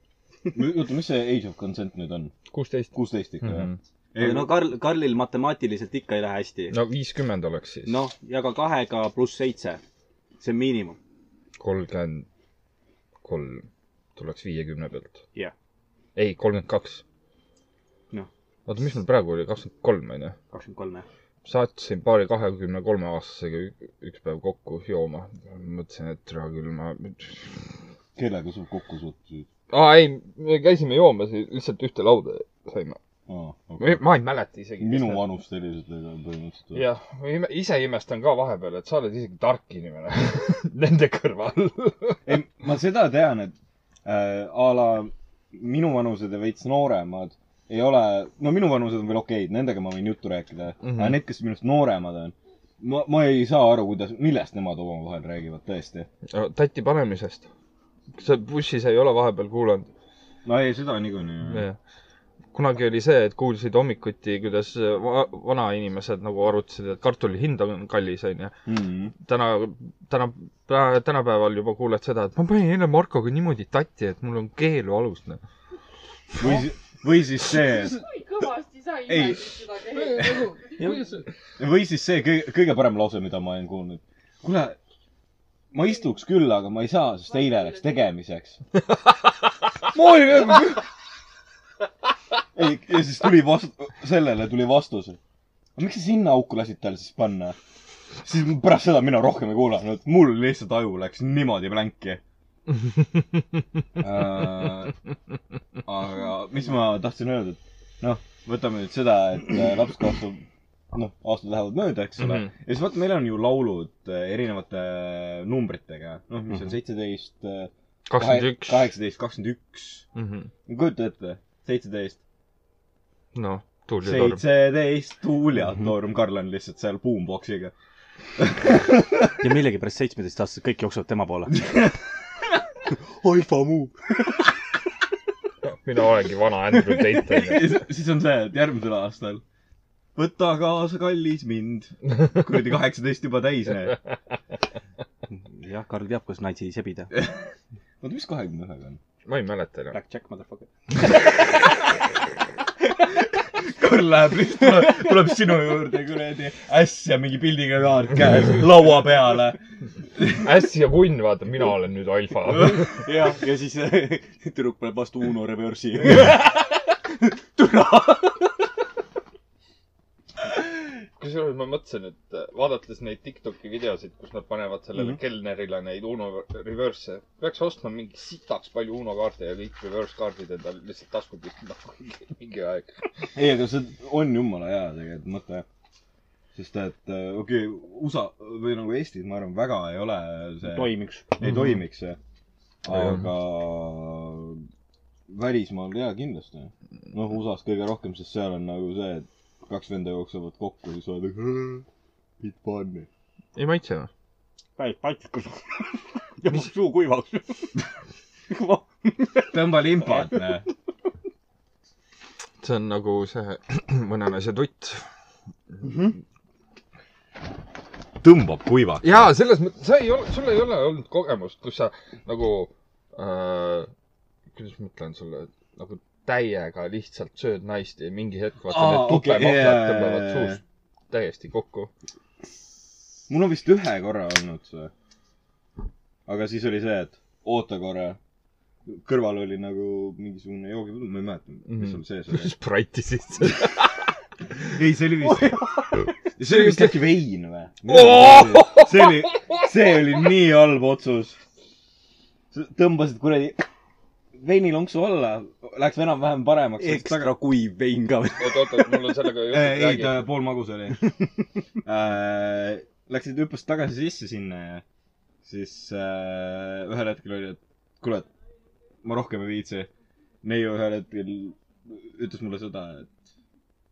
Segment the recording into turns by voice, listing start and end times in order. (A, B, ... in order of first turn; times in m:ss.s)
0:00.5-0:02.3 A
0:02.5-0:03.8 B
0:02.9-0:04.6 A
0:04.2-0:06.8 C
0:06.7-0:08.0 B
0:07.8-0:09.8 C
0:10.4-0:11.0 C
0:11.6-0:12.2 B
0:13.2-0:15.2 B
0:16.2-0:17.0 B
0:18.7-0:20.4 B
0:20.5-0:21.1 C
0:21.4-0:27.6 B
0:28.2-0:29.5 A
0:29.7-0:33.0 B
0:33.3-0:34.0 A
0:33.8-0:35.2 B
0:34.8-0:36.8 A
0:36.7-0:42.3 B
0:42.2-0:56.1 A
0:50.8-0:51.2 B
0:56.3-0:57.5 B
0:58.1-0:59.9 B
1:00.4-1:01.6 A
1:01.5-1:01.8 B
1:02.5-1:08.5 B
1:08.7-1:09.1 A
1:09.2-1:15.4 B
1:16.4-1:18.0 A
1:17.8-1:20.7 D
1:19.1-1:19.6 A
1:20.1-1:21.2 B
1:20.2-1:20.5 A
1:21.6-1:24.8 A
1:25.7-1:28.6 A
1:29.9-1:30.8 A
1:32.5-1:35.2 A
1:35.8-1:37.6 A
1:38.2-1:42.2 A
1:44.0-1:45.0 A
1:45.8-2:00.0 A
1:52.2-1:52.5 B
1:58.1-1:58.9 B
2:00.1-2:00.5 B
2:00.7-2:02.2 A
2:03.3-2:04.4 B
2:04.0-2:07.7 A
2:08.4-2:09.3 A
2:09.4-2:11.6 C
2:11.5-2:12.0 A
2:13.2-2:14.3 C
2:15.7-2:17.8 B
2:17.0-2:19.4 A
2:20.2-2:24.0 A
2:25.3-2:27.1 C
2:27.1-2:27.4 A
2:28.0-2:29.0 A
2:29.2-2:30.0 B
2:29.9-2:30.7 C
2:33.5-2:39.6 A
2:40.4-2:43.0 B
2:42.8-2:46.7 C
2:47.2-2:48.5 C
2:51.2-3:03.3 B
3:03.3-3:05.6 A
3:06.5-3:12.2 A
3:10.6-3:11.3 C
3:11.4-3:11.7 B
3:12.8-3:14.6 A
3:12.9-3:13.2 B
3:15.3-3:21.8 A
3:22.4-3:23.1 A
3:23.5-3:24.1 B
3:24.8-3:27.8 C
3:28.5-3:30.4 C
3:29.5-3:30.6 A
3:32.6-3:35.1 B
3:35.8-3:36.1 C
3:38.2-3:39.3 A
3:39.0-3:43.9 B
3:44.5-3:51.9 B
3:48.7-3:50.6 A
3:53.3-3:54.9 A
3:56.3-3:58.2 A
3:58.8-4:02.5 A
4:01.7-4:04.0 B
4:04.6-4:05.8 A
4:06.4-4:11.4 A
4:06.4-4:07.1 B
4:07.9-4:09.6 B
4:12.5-4:13.6 A
4:14.3-4:17.3 A
4:16.8-4:18.9 C
4:18.4-4:20.3 B
4:19.4-4:21.2 A
4:21.8-4:24.8 A
4:25.4-4:28.3 A
4:29.0-4:29.9 A
4:30.4-4:33.1 A